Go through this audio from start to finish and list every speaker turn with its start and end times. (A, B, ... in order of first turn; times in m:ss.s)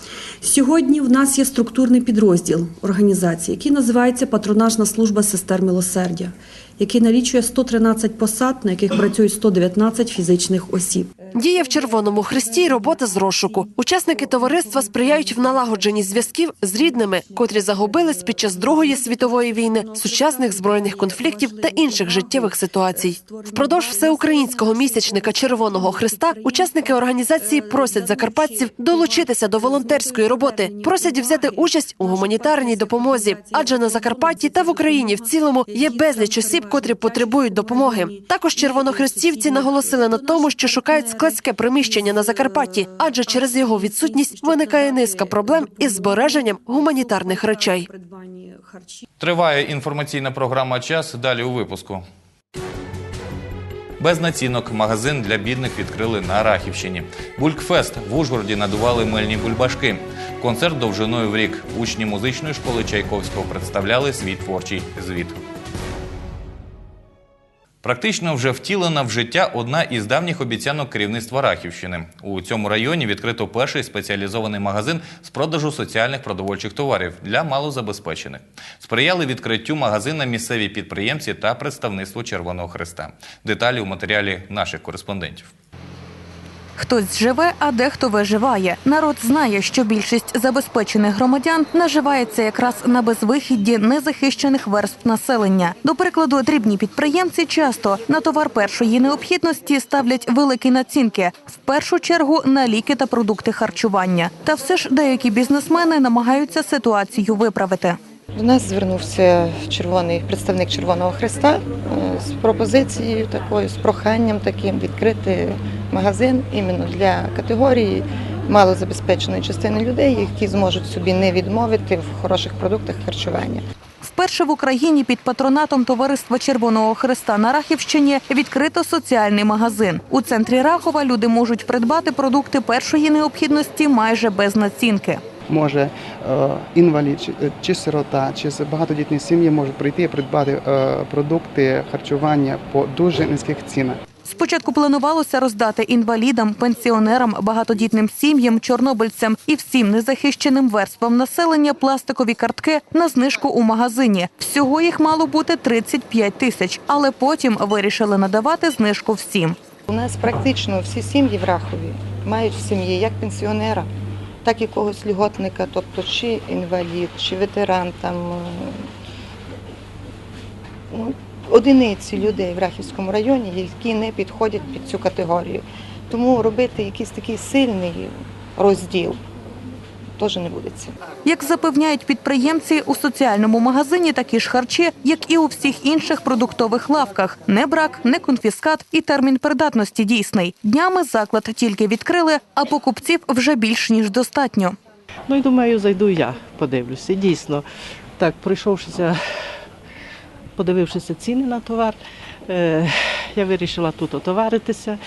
0:00.4-0:11.1 A
0:11.3-0:47.9 B
0:14.2-0:15.4 A
0:17.3-0:49.0 A
0:49.2-0:52.0 C
0:54.0-1:05.4 C
1:07.8-1:25.5 C
1:26.8-1:48.0 D
1:48.3-2:03.6 E
2:04.0-2:15.2 D
2:15.5-2:24.0 F
2:24.2-2:39.6 D
2:39.9-2:43.9 E
2:44.4-2:48.8 E
2:50.9-2:59.2 E
3:00.2-3:00.9 E
3:01.2-3:14.8 D
3:15.3-3:17.6 G
3:18.2-3:19.1 G
3:20.6-3:22.0 G
3:22.5-3:24.9 G